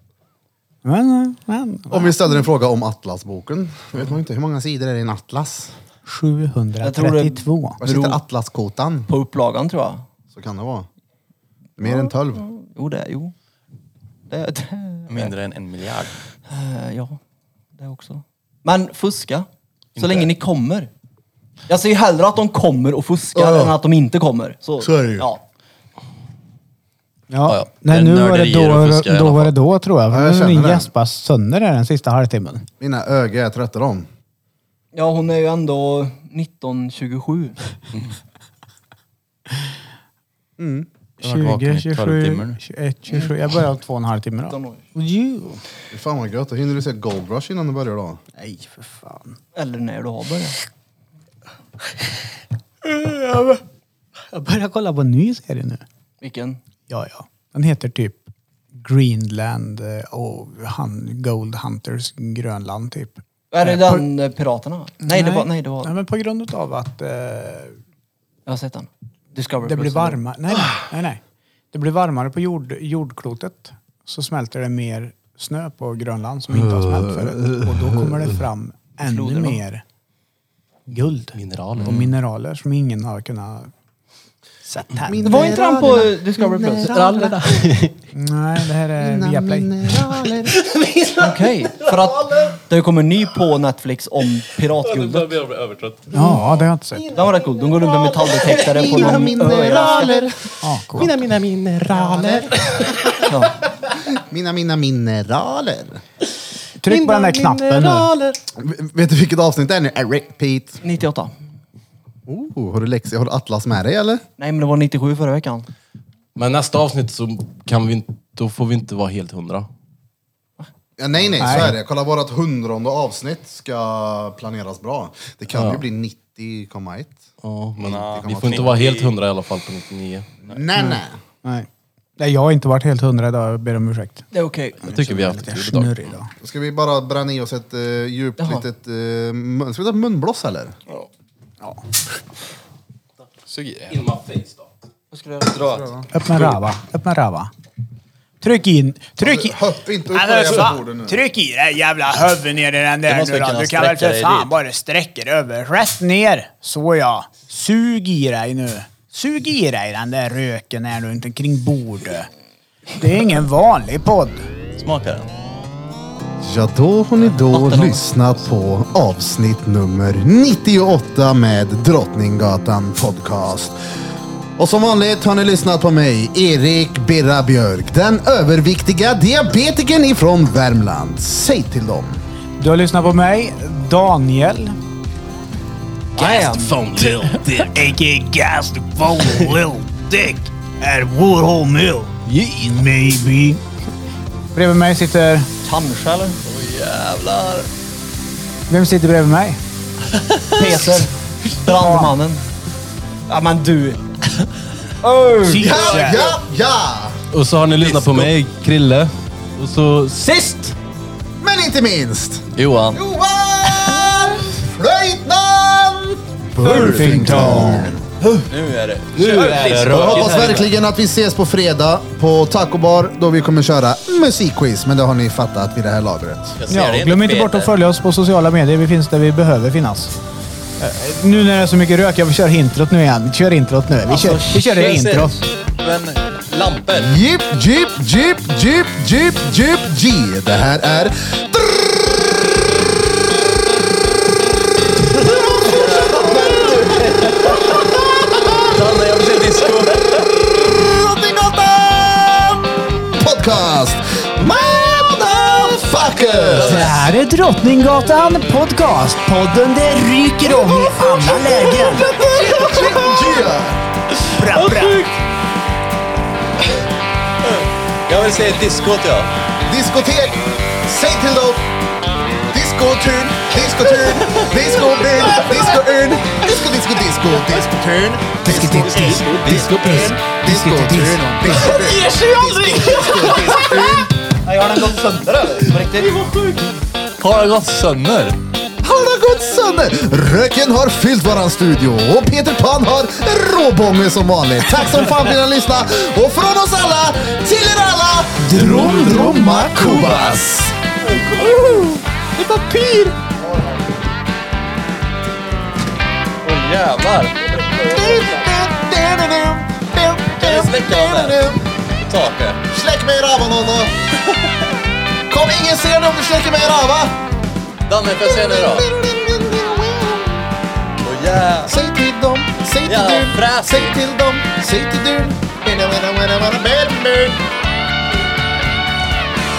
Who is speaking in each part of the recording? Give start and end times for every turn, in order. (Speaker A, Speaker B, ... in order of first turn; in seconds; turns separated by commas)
Speaker A: 0.8-2.2, Speaker B: 1.9-5.7, Speaker A: 6.1-7.8, Speaker C: 6.8-8.2, Speaker B: 7.8-9.1, Speaker C: 9.1-10.1, Speaker B: 10.3-10.9, Speaker B: 11.8-12.5, Speaker C: 11.8-13.3, Speaker C: 14.3-15.3, Speaker D: 15.1-16.1, Speaker C: 16.5-17.2, Speaker C: 17.8-20.9, Speaker D: 20.0-20.3, Speaker C: 21.7-25.4, Speaker B: 23.4-23.8, Speaker B: 24.8-25.3, Speaker A: 27.3-32.7, Speaker D: 27.5-29.5, Speaker B: 30.1-30.9, Speaker B: 32.8-34.1, Speaker C: 34.9-37.6, Speaker B: 40.6-40.9, Speaker D: 41.2-42.6, Speaker A: 41.2-45.6, Speaker C: 44.5-44.8, Speaker B: 45.9-48.2, Speaker A: 48.4-49.4, Speaker C: 49.5-50.6, Speaker A: 52.8-53.6, Speaker A: 54.3-55.9, Speaker C: 56.2-56.6, Speaker A: 56.9-64.1, Speaker C: 63.5-66.0, Speaker A: 65.0-67.8, Speaker C: 68.5-70.2, Speaker A: 69.6-71.2, Speaker A: 71.7-79.8, Speaker B: 76.5-78.3, Speaker C: 79.0-79.6, Speaker A: 80.9-83.7, Speaker E: 81.3-82.1, Speaker A: 84.7-85.7, Speaker B: 85.0-87.5, Speaker C: 85.2-87.0, Speaker E: 86.9-88.0, Speaker A: 88.1-89.7, Speaker B: 89.0-90.6, Speaker E: 89.9-92.5, Speaker C: 91.2-95.3, Speaker E: 94.8-103.4, Speaker A: 96.1-97.0, Speaker C: 97.1-100.1, Speaker B: 98.5-100.4, Speaker A: 100.6-101.2, Speaker B: 101.9-103.0, Speaker C: 103.3-103.6, Speaker B: 104.0-106.0, Speaker A: 106.8-108.1, Speaker E: 106.9-108.4, Speaker B: 108.6-110.8, Speaker C: 110.8-111.3, Speaker B: 112.3-114.2, Speaker C: 114.4-115.7, Speaker E: 116.4-119.7, Speaker B: 121.0-127.2, Speaker A: 121.4-121.8, Speaker E: 125.5-125.8, Speaker E: 127.4-130.3, Speaker D: 127.8-129.1, Speaker B: 128.0-128.8, Speaker B: 130.5-131.2, Speaker A: 130.7-134.3, Speaker C: 134.3-134.9, Speaker A: 134.8-136.3, Speaker E: 134.8-135.9, Speaker B: 136.4-140.8, Speaker C: 138.4-138.7, Speaker D: 143.5-144.0, Speaker E: 143.9-144.7, Speaker C: 145.1-145.8, Speaker D: 145.4-146.6, Speaker A: 146.1-147.5, Speaker A: 148.4-162.3, Speaker B: 149.2-151.2, Speaker D: 153.1-154.5, Speaker A: 162.9-164.4, Speaker D: 164.8-165.3, Speaker B: 166.4-173.8, Speaker C: 167.5-168.1, Speaker B: 174.6-182.2, Speaker A: 182.6-184.8, Speaker C: 186.2-186.8, Speaker E: 186.2-187.8, Speaker A: 187.6-193.6, Speaker E: 189.2-189.6, Speaker E: 192.3-192.7, Speaker A: 194.5-195.5, Speaker C: 195.6-196.4, Speaker D: 196.4-197.7, Speaker A: 198.7-199.6, Speaker D: 200.1-200.5, Speaker C: 200.6-202.4, Speaker A: 201.7-202.1, Speaker C: 203.3-204.0, Speaker C: 205.0-205.9, Speaker A: 205.4-206.3, Speaker B: 205.6-207.2, Speaker D: 205.6-206.2, Speaker E: 207.3-210.7, Speaker D: 207.8-208.3, Speaker B: 211.4-218.1, Speaker D: 212.6-213.0, Speaker A: 216.6-218.0, Speaker D: 216.7-217.3, Speaker D: 218.5-220.6, Speaker E: 219.1-220.7, Speaker B: 219.9-226.6, Speaker D: 226.6-227.7, Speaker A: 226.7-230.1, Speaker A: 230.8-235.4, Speaker C: 234.1-234.7, Speaker D: 234.6-237.2, Speaker B: 237.0-242.3, Speaker B: 245.1-248.8, Speaker D: 245.6-247.8, Speaker D: 248.6-250.3, Speaker B: 250.2-257.0, Speaker D: 256.4-257.0, Speaker A: 256.6-262.1, Speaker D: 261.1-263.2, Speaker B: 262.0-263.8, Speaker D: 264.2-265.1, Speaker A: 264.4-265.0, Speaker D: 267.4-269.3, Speaker B: 269.7-271.7, Speaker B: 272.5-279.2, Speaker D: 274.3-275.6, Speaker A: 278.4-281.7, Speaker D: 278.5-280.2, Speaker E: 279.5-280.1, Speaker B: 280.2-285.8, Speaker D: 281.6-286.6, Speaker C: 285.7-286.3, Speaker D: 287.2-288.4, Speaker B: 288.8-300.8, Speaker A: 298.4-300.3, Speaker D: 301.1-303.1, Speaker B: 303.4-303.9, Speaker D: 306.4-308.3, Speaker B: 307.8-311.7, Speaker D: 310.4-311.4, Speaker D: 311.9-312.6, Speaker B: 312.7-313.9, Speaker B: 315.3-317.2, Speaker D: 317.9-318.9, Speaker B: 318.2-320.5, Speaker D: 321.0-321.8, Speaker B: 321.7-327.4, Speaker D: 322.9-324.0